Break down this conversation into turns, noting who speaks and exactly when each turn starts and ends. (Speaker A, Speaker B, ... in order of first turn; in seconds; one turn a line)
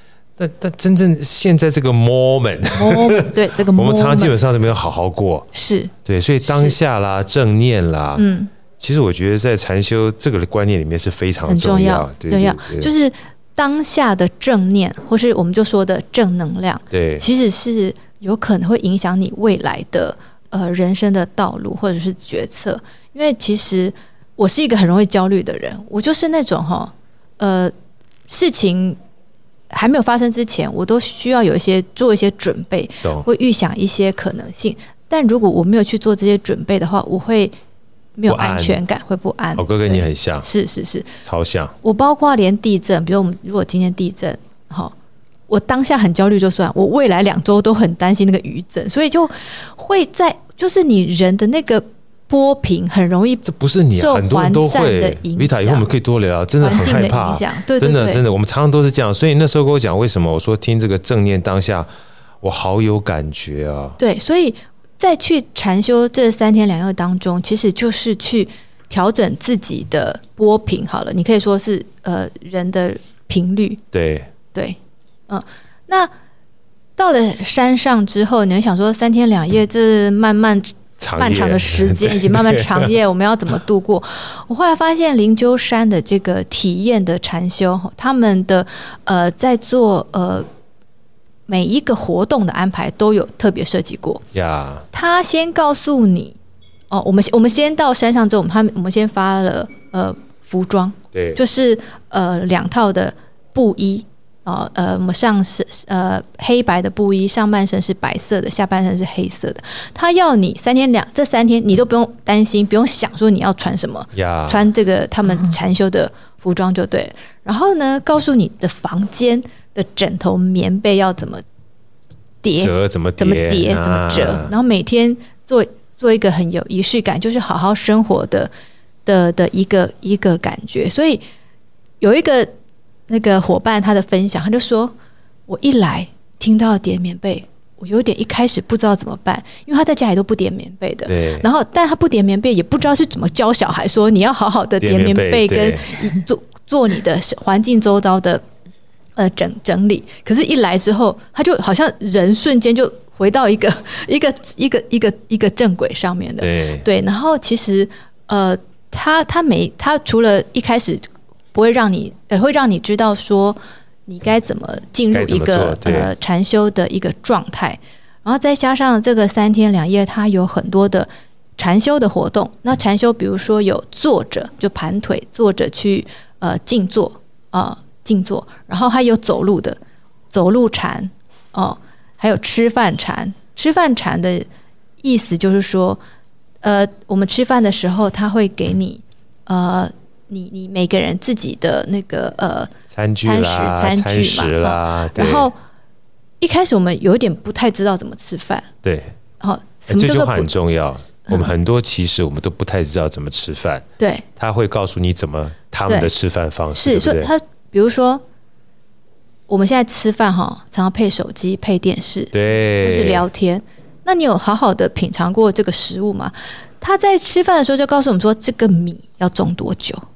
Speaker A: 0.4-5.5
Speaker B: 2.7-4.3
Speaker B: 5.5-5.9
Speaker A: 6.0-8.2
Speaker B: 6.4-6.8
Speaker B: 8.2-8.5
Speaker A: 8.8-12.9
Speaker B: 11.4-27.7
Speaker A: 16.9-17.2
Speaker B: 28.3-29.0
Speaker B: 29.7-37.5
Speaker B: 38.2-41.1
Speaker A: 38.3-38.8
Speaker A: 39.5-40.5
Speaker A: 41.2-41.7
Speaker B: 41.8-44.9
Speaker B: 45.5-55.9
Speaker A: 53.4-61.9
Speaker B: 56.6-58.2
Speaker A: 62.4-64.0
Speaker B: 64.0-73.8
Speaker A: 73.9-74.3
Speaker B: 75.3-76.1
Speaker B: 77.0-90.5
Speaker A: 81.0-82.9
Speaker B: 91.5-94.2
Speaker A: 94.3-94.8
Speaker B: 94.9-96.4
Speaker B: 96.9-121.4
Speaker A: 101.1-101.4
Speaker A: 114.1-114.7
Speaker B: 122.4-128.5
Speaker A: 122.6-124.5
Speaker B: 129.1-131.2
Speaker B: 132.0-132.5
Speaker B: 133.1-134.9
Speaker B: 135.5-148.4
Speaker A: 141.1-141.5
Speaker A: 144.8-146.0
Speaker B: 149.2-179.8
Speaker A: 156.4-156.8
Speaker A: 165.1-166.1
Speaker B: 180.3-184.4
Speaker B: 185.0-186.0
Speaker B: 186.6-192.7
Speaker A: 192.9-195.5
Speaker B: 193.2-195.6
Speaker B: 196.4-198.7
Speaker A: 198.8-199.1
Speaker B: 199.4-200.5
Speaker A: 199.9-203.8
Speaker B: 204.0-204.2
Speaker A: 204.4-207.3
Speaker B: 206.7-208.2
Speaker B: 209.5-220.0
Speaker A: 212.3-213.2